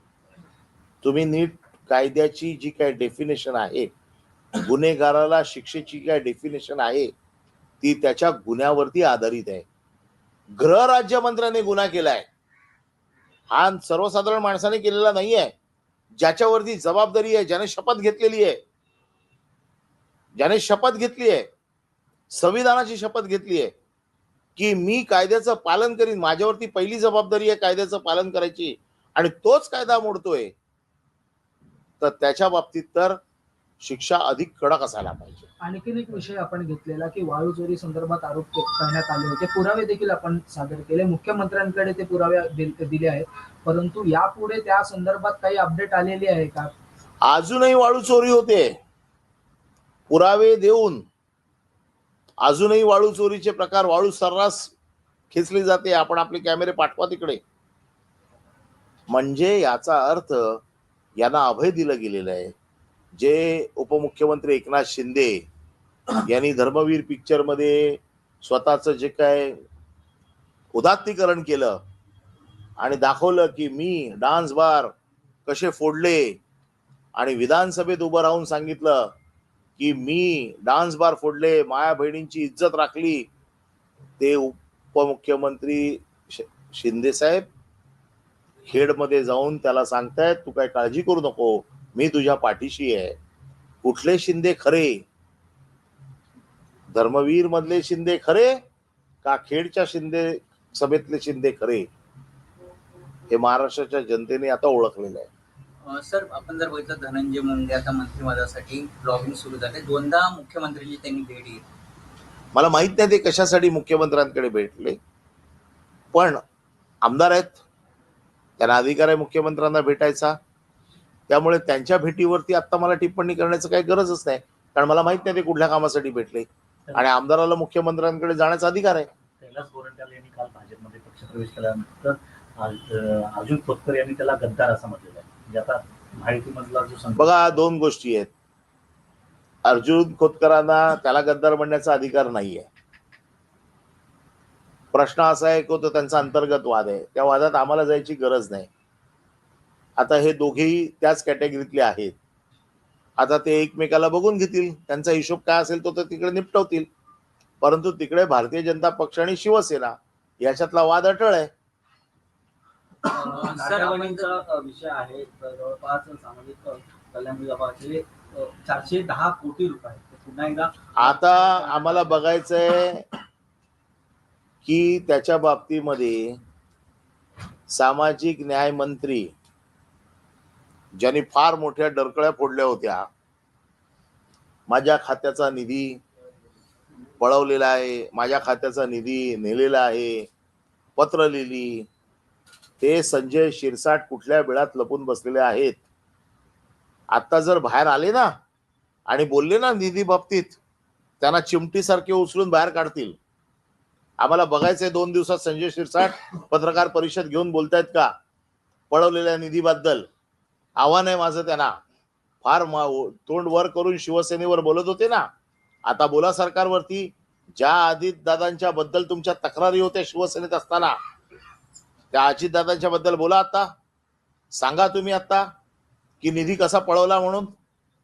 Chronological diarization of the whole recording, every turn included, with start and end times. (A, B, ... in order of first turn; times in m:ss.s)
0:01.0-0:03.9 A
0:04.6-0:07.1 A
0:07.8-0:09.6 A
0:10.6-0:12.3 A
0:13.5-0:15.5 A
0:16.2-0:18.6 A
0:20.4-0:21.5 A
0:22.3-0:23.7 A
0:24.6-0:30.5 A
0:32.0-0:33.2 A
0:33.8-0:35.5 A
0:35.6-0:46.7 B
0:47.3-0:48.7 A
0:50.1-0:51.0 A
0:52.4-0:54.7 A
0:55.3-0:57.4 A
0:59.1-1:00.6 A
1:01.2-1:02.5 A
1:03.2-1:05.4 A
1:06.3-1:09.5 A
1:10.8-1:11.8 A
1:12.8-1:14.9 A
1:15.5-1:16.4 A
1:17.2-1:19.1 A
1:19.8-1:23.3 A
1:24.2-1:27.5 A
1:28.7-1:33.1 A
1:33.8-1:35.0 A
1:36.9-1:38.5 A
1:39.2-1:41.9 A
1:43.3-1:45.3 A
1:45.8-1:51.6 C
1:52.5-1:55.0 A
1:56.1-1:56.4 A
1:57.0-1:57.6 A
1:58.6-2:00.4 A
2:01.3-2:09.1 A
2:09.4-2:17.6 D
2:17.2-2:18.3 A
2:19.6-2:22.7 A
2:24.9-2:28.7 A
2:30.0-2:32.2 A
2:33.2-2:36.9 A
2:37.6-2:41.5 A
2:43.0-2:52.2 E
2:43.1-2:44.4 C
2:51.0-2:53.1 A
2:54.6-2:56.4 A
2:57.7-2:59.3 A
3:01.0-3:03.1 A
3:04.7-3:06.0 A
3:07.2-3:10.3 A
3:11.0-3:11.9 A
3:12.8-3:15.8 A
3:17.1-3:18.3 A
3:19.1-3:20.6 A
3:21.2-3:23.2 A
3:24.2-3:28.1 A
3:28.9-3:30.1 A
3:30.8-3:31.7 A
3:32.4-3:35.2 A
3:35.9-3:41.0 A
3:42.1-3:43.7 A
3:44.6-3:45.5 A
3:46.2-3:47.5 A